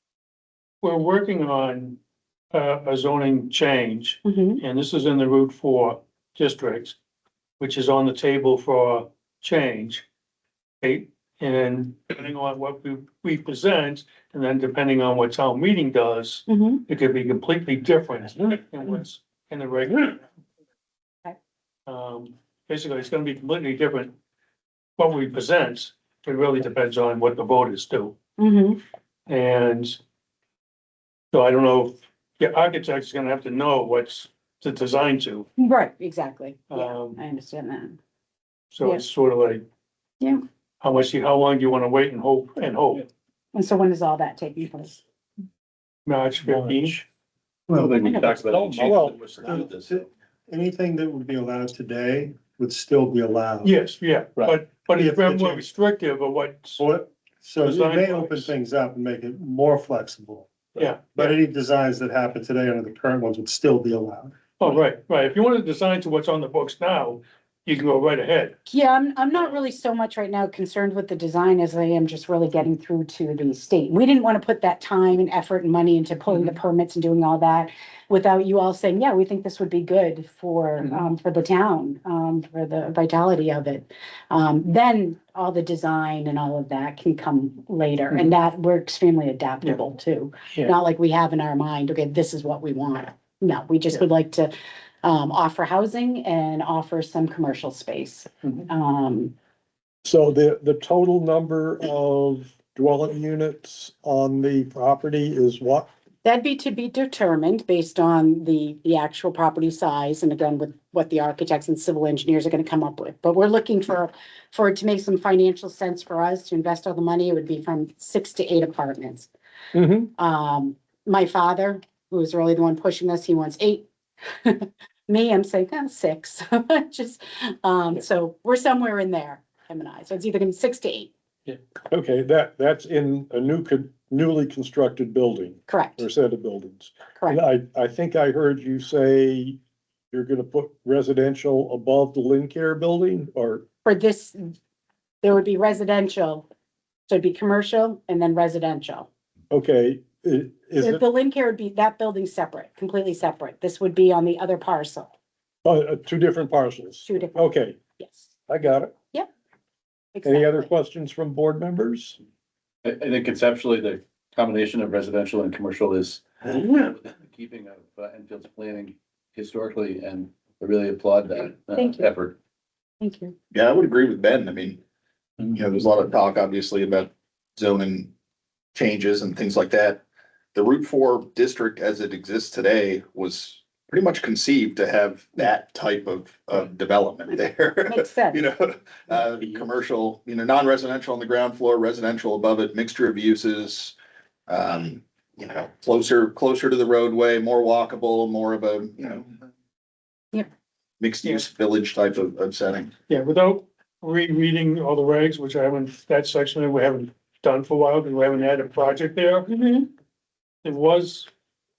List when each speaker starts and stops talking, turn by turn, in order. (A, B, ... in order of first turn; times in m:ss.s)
0:00.8-0:02.0 A
0:02.5-0:07.0 A
0:04.2-0:04.6 B
0:07.6-0:10.0 A
0:10.8-0:20.2 A
0:16.5-0:16.8 B
0:21.9-0:24.1 A
0:25.0-0:28.2 A
0:28.4-0:28.8 B
0:29.3-0:30.0 A
0:31.3-0:35.5 A
0:35.6-0:38.0 B
0:36.7-0:37.2 A
0:38.7-0:39.6 A
0:40.8-0:43.1 A
0:43.5-0:45.0 B
0:46.0-0:47.0 A
0:46.7-0:46.9 C
0:47.7-0:48.3 D
0:47.7-0:50.0 E
0:48.2-0:48.8 F
0:48.4-0:49.2 C
0:48.9-0:53.7 D
0:53.6-0:56.8 A
0:55.0-0:55.6 D
0:56.8-1:00.5 D
0:57.6-0:58.5 A
1:00.8-1:01.4 A
1:01.2-1:04.3 D
1:04.6-1:08.6 A
1:08.6-1:34.5 B
1:35.0-1:39.3 B
1:40.0-1:45.9 C
1:46.2-1:59.3 B
1:59.7-2:00.1 C
2:00.2-2:11.1 B
2:11.9-2:19.6 C
2:15.7-2:16.0 B
2:20.1-2:23.6 C
2:23.8-2:24.5 B
2:25.2-2:26.5 B
2:27.1-2:29.1 B
2:29.5-2:31.0 C
2:30.8-2:35.1 B
2:35.6-2:37.8 C
2:37.0-2:37.4 B
2:38.0-2:38.3 B
2:38.5-2:38.9 C
2:40.1-2:40.7 B
2:40.2-2:42.2 C
2:42.8-2:52.4 E
2:51.7-2:52.1 B
2:53.0-2:53.3 B
2:53.6-2:54.8 F
2:55.5-2:57.0 F
2:57.6-2:58.0 F
2:58.7-3:00.0 F
3:00.6-3:07.2 F
3:07.3-3:08.5 B
3:09.2-3:13.9 F
3:14.7-3:15.0 F
3:15.6-3:19.2 F
3:21.2-3:22.9 F
3:23.1-3:29.9 A
3:30.6-3:31.3 A